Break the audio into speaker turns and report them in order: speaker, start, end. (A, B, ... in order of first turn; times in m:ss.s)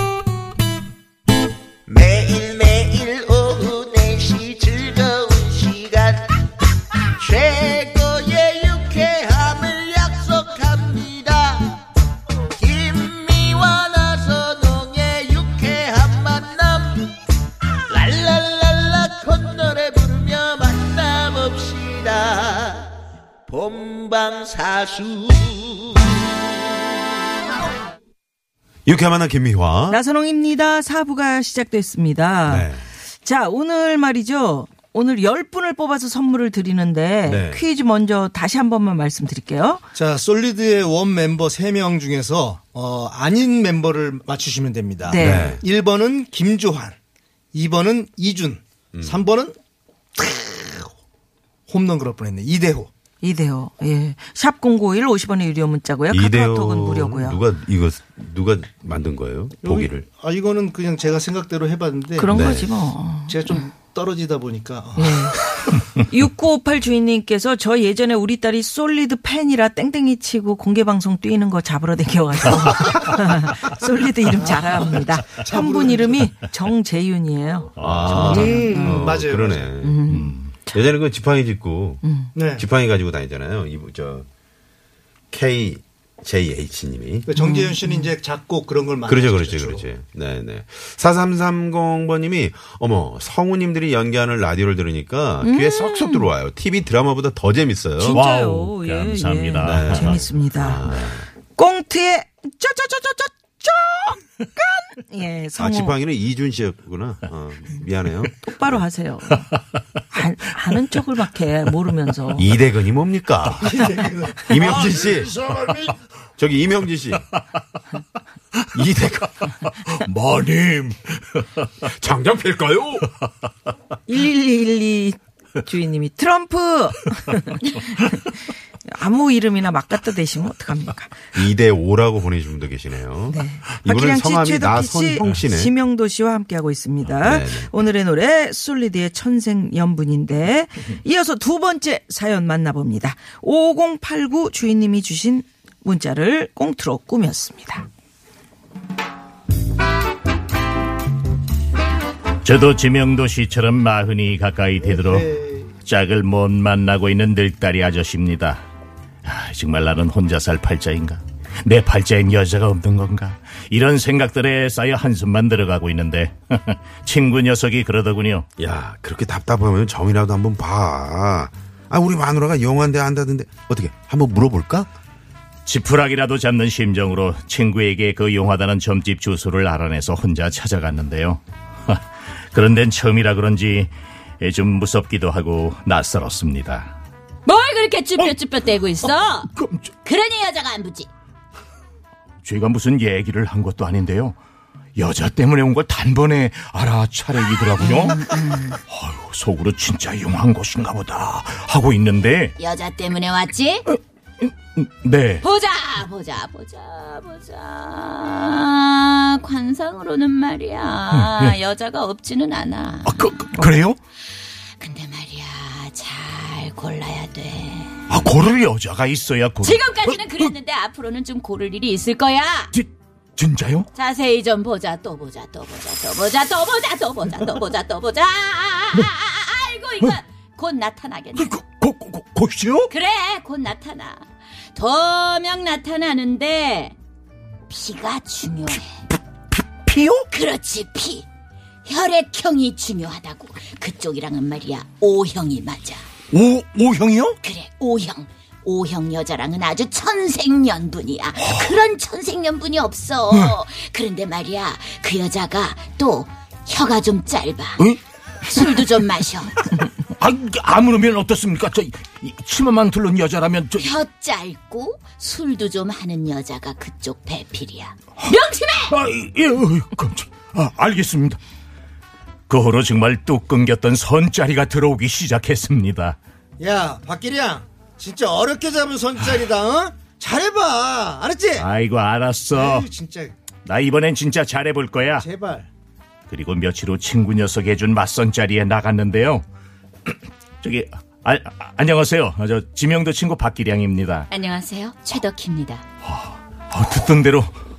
0:01.9-0:06.4 A
0:07.2-0:11.8 A
0:12.6-0:17.1 A
0:17.9-0:22.9 A
0:23.5-0:26.2 A
0:28.9-0:30.0 B
0:29.9-0:32.7 C
0:32.5-0:32.9 B
0:33.2-0:39.8 C
0:37.2-0:37.6 B
0:40.0-0:47.0 D
0:45.1-0:45.5 C
0:45.2-0:45.6 B
0:47.5-0:49.6 D
0:48.9-0:49.2 B
0:50.2-0:50.9 D
0:51.7-0:52.9 D
0:53.2-0:57.4 C
0:56.1-1:00.0 B
0:59.6-1:02.7 D
1:02.2-1:03.6 C
1:02.3-1:02.7 B
1:03.3-1:05.7 D
1:05.0-1:19.1 C
1:14.4-1:14.8 D
1:15.4-1:16.2 D
1:17.8-1:18.5 E
1:17.8-1:20.0 B
1:18.0-1:19.7 D
1:19.8-1:20.8 C
1:20.1-1:20.5 E
1:20.7-1:22.0 B
1:22.0-1:22.3 C
1:22.3-1:22.7 D
1:22.6-1:24.2 B
1:25.3-1:27.3 B
1:27.2-1:29.8 D
1:27.4-1:28.1 C
1:29.0-1:38.2 B
1:35.4-1:36.3 C
1:38.0-1:41.0 C
1:38.1-1:40.2 E
1:39.6-1:41.3 B
1:41.6-1:46.0 C
1:45.6-1:48.8 B
1:48.4-1:49.5 C
1:50.1-1:52.5 C
1:52.4-1:53.7 B
1:53.6-1:55.0 D
1:54.4-1:55.4 B
1:55.3-1:55.8 E
1:56.4-1:57.2 B
1:58.6-2:01.4 E
1:58.7-1:59.3 B
2:01.9-2:03.1 B
2:04.1-2:11.2 C
2:11.3-2:15.7 B
2:13.3-2:27.8 C
2:17.2-2:17.7 B
2:32.4-2:35.3 E
2:34.8-2:35.7 D
2:35.8-2:38.6 E
2:39.2-2:48.5 E
2:48.6-2:54.9 B
2:55.7-3:06.9 E
3:07.4-3:09.5 F
3:09.1-3:10.0 E
3:10.0-3:11.1 F
3:12.4-3:14.4 E
3:15.0-3:22.5 E
3:17.8-3:18.8 C
3:22.6-3:23.8 F
3:23.9-3:25.4 E
3:25.4-3:33.2 F
3:31.1-3:31.6 E
3:33.0-3:34.0 E
3:34.8-3:37.9 F
3:38.1-3:40.5 E
3:39.6-3:42.7 F
3:42.7-3:43.9 E
3:43.9-3:51.5 F
3:51.3-3:52.9 E
3:52.9-3:54.2 F
3:54.8-3:56.9 F
3:57.7-3:58.8 F
3:59.5-4:00.3 E
4:00.3-4:01.2 F
4:01.9-4:06.0 F
4:06.3-4:07.4 E
4:07.4-4:17.8 F
4:11.4-4:11.7 E
4:18.5-4:19.5 F
4:18.5-4:18.8 E
4:19.6-4:24.0 E
4:23.9-4:28.9 F
4:28.9-4:31.4 E
4:32.5-4:36.2 E
4:36.6-4:41.7 D
4:41.6-4:42.9 E
4:42.5-4:43.3 D
4:43.6-4:45.2 E
4:45.2-4:45.7 D
4:46.3-4:49.4 E
4:50.1-4:54.3 E
4:54.3-4:55.8 F
4:56.0-4:57.5 E